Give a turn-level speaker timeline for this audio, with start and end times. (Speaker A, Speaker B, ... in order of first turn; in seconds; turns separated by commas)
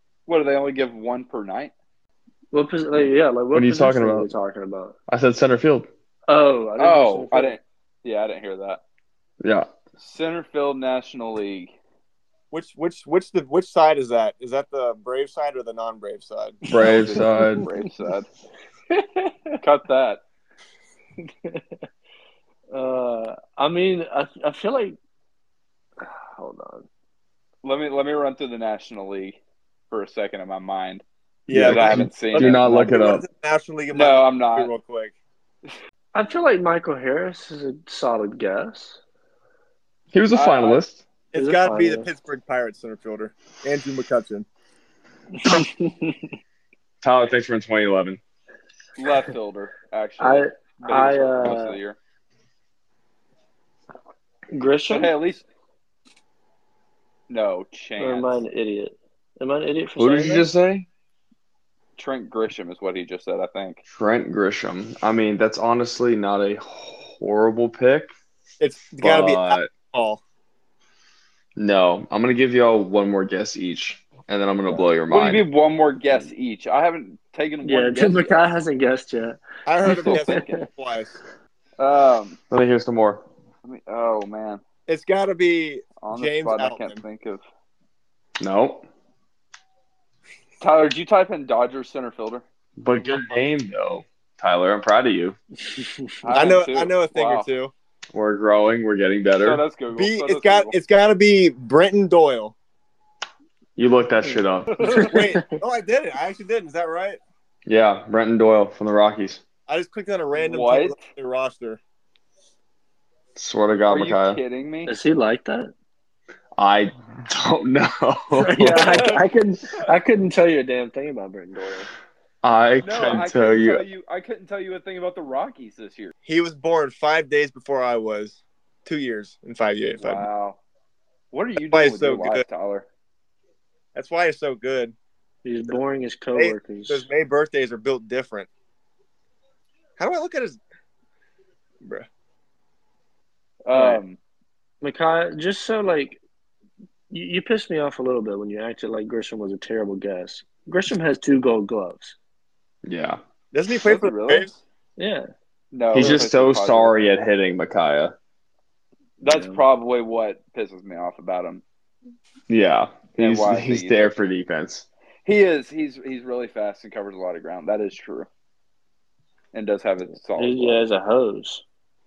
Speaker A: 0.3-1.7, Speaker B: 2.5-5.0, Speaker C: 3.5-4.3, Speaker C: 5.1-5.9, Speaker B: 6.3-7.5, Speaker A: 6.8-8.8, Speaker C: 9.4-9.7, Speaker A: 10.0-11.8, Speaker D: 12.5-16.6, Speaker C: 16.7-17.7, Speaker B: 16.7-17.7, Speaker A: 16.8-18.3, Speaker B: 18.9-19.4, Speaker A: 19.6-20.2, Speaker B: 21.3-21.6, Speaker B: 22.7-25.0, Speaker B: 26.0-26.9, Speaker A: 27.6-31.0, Speaker D: 31.5-35.1, Speaker C: 31.5-33.2, Speaker A: 31.6-32.7, Speaker A: 33.9-34.7, Speaker B: 36.1-39.0, Speaker C: 40.1-41.0, Speaker A: 40.3-40.8, Speaker D: 41.3-44.5, Speaker B: 41.4-42.1, Speaker B: 45.4-46.3, Speaker C: 47.0-48.2, Speaker A: 49.0-52.0, Speaker B: 50.2-51.8, Speaker B: 54.5-55.1, Speaker A: 54.9-55.5, Speaker A: 57.3-58.3, Speaker B: 58.0-60.5, Speaker C: 60.0-60.9, Speaker A: 62.0-63.8, Speaker C: 63.9-68.1, Speaker D: 68.6-70.2, Speaker C: 69.0-69.7, Speaker C: 71.6-75.4, Speaker A: 75.1-78.4, Speaker B: 77.6-80.6, Speaker D: 79.7-81.2, Speaker A: 81.8-82.4, Speaker C: 82.5-83.2, Speaker A: 83.7-84.6, Speaker D: 84.9-87.0, Speaker A: 86.0-87.4, Speaker C: 88.4-88.9, Speaker A: 90.6-92.4, Speaker C: 92.8-95.4, Speaker B: 95.8-96.0, Speaker A: 96.2-97.5, Speaker D: 96.3-97.7, Speaker C: 98.1-99.6, Speaker A: 99.4-100.7, Speaker D: 99.9-102.5, Speaker C: 103.8-105.1, Speaker B: 104.3-105.4, Speaker A: 104.8-105.1, Speaker D: 105.0-107.2, Speaker C: 107.7-109.4, Speaker D: 109.7-111.8, Speaker A: 110.4-111.0, Speaker C: 113.4-114.4, Speaker A: 113.9-114.9, Speaker B: 114.9-115.7, Speaker C: 116.6-119.1, Speaker B: 118.3-121.9, Speaker A: 118.8-119.2, Speaker C: 122.4-123.8, Speaker A: 122.8-126.1, Speaker D: 126.2-130.2, Speaker A: 130.0-130.6, Speaker A: 131.3-132.9, Speaker D: 131.7-132.4, Speaker D: 133.9-134.9, Speaker B: 135.4-137.1, Speaker D: 136.3-138.5, Speaker D: 140.0-140.6, Speaker A: 143.7-144.2, Speaker B: 143.8-144.0, Speaker B: 144.8-146.2, Speaker B: 147.1-152.2, Speaker C: 152.8-153.2, Speaker D: 153.5-154.5, Speaker A: 153.8-154.6, Speaker B: 155.0-155.3, Speaker A: 155.7-156.9, Speaker C: 155.9-158.2, Speaker A: 159.2-161.6, Speaker B: 159.2-159.6, Speaker C: 162.5-164.9, Speaker A: 163.2-164.1, Speaker A: 165.2-168.3, Speaker A: 169.5-170.8, Speaker B: 170.4-171.6